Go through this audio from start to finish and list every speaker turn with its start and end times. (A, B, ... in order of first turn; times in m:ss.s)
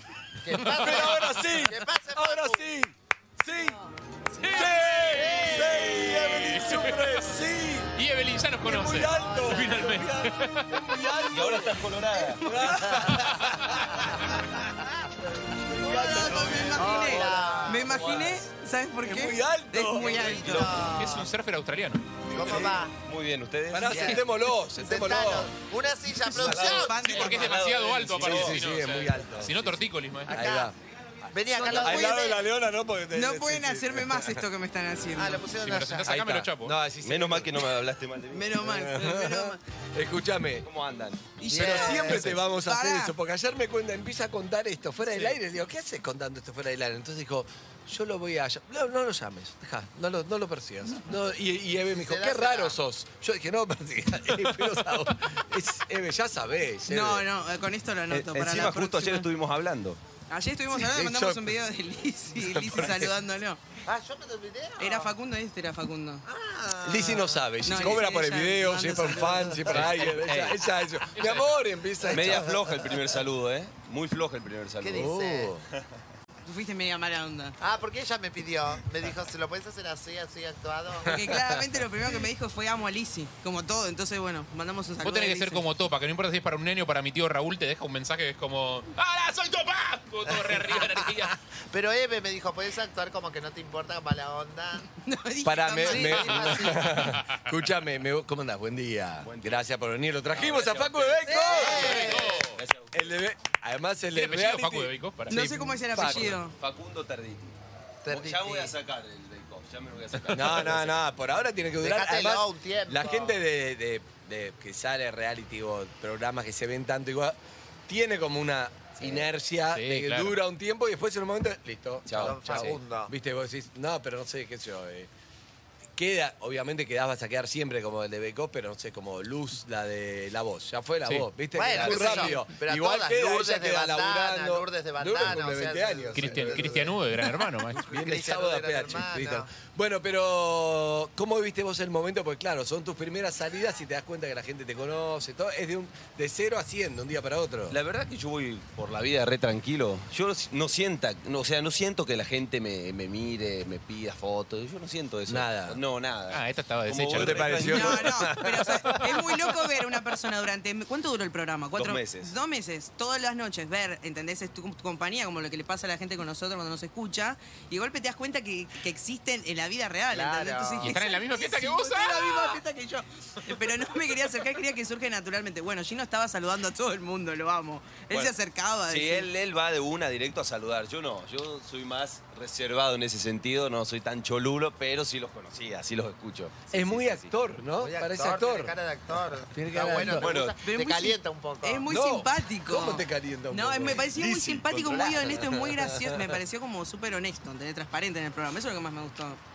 0:00.4-0:02.6 A
0:00.6-0:01.1 B
0:00.6-0:03.8 C
0:04.3-0:05.0 D
0:04.4-0:07.9 C
0:04.6-0:07.3 B
0:04.9-0:06.6 A
0:08.0-0:10.7 B
0:08.6-0:11.8 C
0:09.0-0:10.0 A
0:11.3-0:12.5 E
0:12.1-0:13.3 D
0:12.4-0:14.0 C
0:13.0-0:13.6 A
0:15.8-0:18.4 C
0:15.9-0:20.8 D
0:15.9-0:17.9 A
0:19.0-0:20.3 C
0:19.9-0:21.3 A
0:20.3-0:20.9 E
0:21.0-0:22.8 B
0:22.3-0:24.2 E
0:22.3-0:23.0 A
0:22.4-0:22.8 C
0:23.7-0:25.5 C
0:23.9-0:24.2 A
0:24.8-0:27.1 A
0:26.3-0:27.6 D
0:26.3-0:28.6 E
0:27.0-0:30.4 B
0:28.1-0:30.8 C
0:30.3-0:30.7 A
0:31.3-0:32.4 A
0:31.5-0:32.4 D
0:31.6-0:34.4 C
0:33.1-0:35.4 D
0:35.2-0:36.2 A
0:35.6-0:36.8 B
0:36.0-0:37.7 C
0:37.0-0:38.6 E
0:38.3-0:39.6 D
0:38.6-0:40.7 C
0:40.6-0:41.4 E
0:41.4-0:43.1 D
0:41.5-0:57.3 C
0:41.5-0:42.4 A
0:51.9-0:52.8 A
0:56.9-0:59.3 D
0:58.1-1:00.0 E
1:00.3-1:03.6 D
1:00.7-1:01.6 C
1:02.3-1:03.1 C
1:03.8-1:05.1 A
1:04.8-1:06.2 D
1:06.3-1:08.0 A
1:06.8-1:12.6 C
1:07.6-1:09.8 D
1:09.7-1:10.6 E
1:11.1-1:11.6 B
1:12.1-1:15.1 E
1:12.1-1:12.6 A
1:14.8-1:15.5 A
1:14.9-1:15.6 C
1:16.4-1:17.6 D
1:17.6-1:21.1 A
1:21.0-1:25.7 D
1:25.0-1:31.4 B
1:30.2-1:34.8 A
1:35.0-1:36.3 D
1:35.4-1:42.0 C
1:35.8-1:37.0 A
1:36.2-1:37.4 B
1:39.2-1:39.7 E
1:40.3-1:43.2 E
1:41.2-1:41.8 D
1:41.4-1:42.5 A
1:41.5-1:42.6 B
1:42.9-1:46.4 C
1:44.1-1:46.4 B
1:45.3-1:46.6 D
1:46.4-1:47.5 E
1:48.0-1:48.8 A
1:48.1-1:51.0 E
1:50.3-1:57.4 C
1:51.8-1:53.4 A
1:57.9-2:05.1 C
1:59.0-1:59.3 E
1:59.7-2:00.4 B
2:02.1-2:02.5 E
2:02.2-2:03.1 A
2:06.0-2:17.0 C
2:11.5-2:16.9 A
2:11.7-2:12.2 E
2:16.1-2:17.8 B
2:17.8-2:27.8 C
2:17.8-2:19.5 A
2:27.7-2:38.2 E
2:35.3-2:35.8 C
2:36.3-2:37.7 B
2:37.2-2:39.2 C
2:37.6-2:59.3 D
2:41.8-2:42.3 E
2:50.1-2:50.9 A
2:50.8-2:52.6 B
2:58.9-3:07.3 E
3:06.7-3:08.8 C
3:07.8-3:11.9 A
3:09.5-3:10.3 C
3:10.1-3:10.6 E
3:10.6-3:19.4 D
3:11.9-3:14.1 C
3:13.9-3:15.6 E
3:15.4-3:16.4 C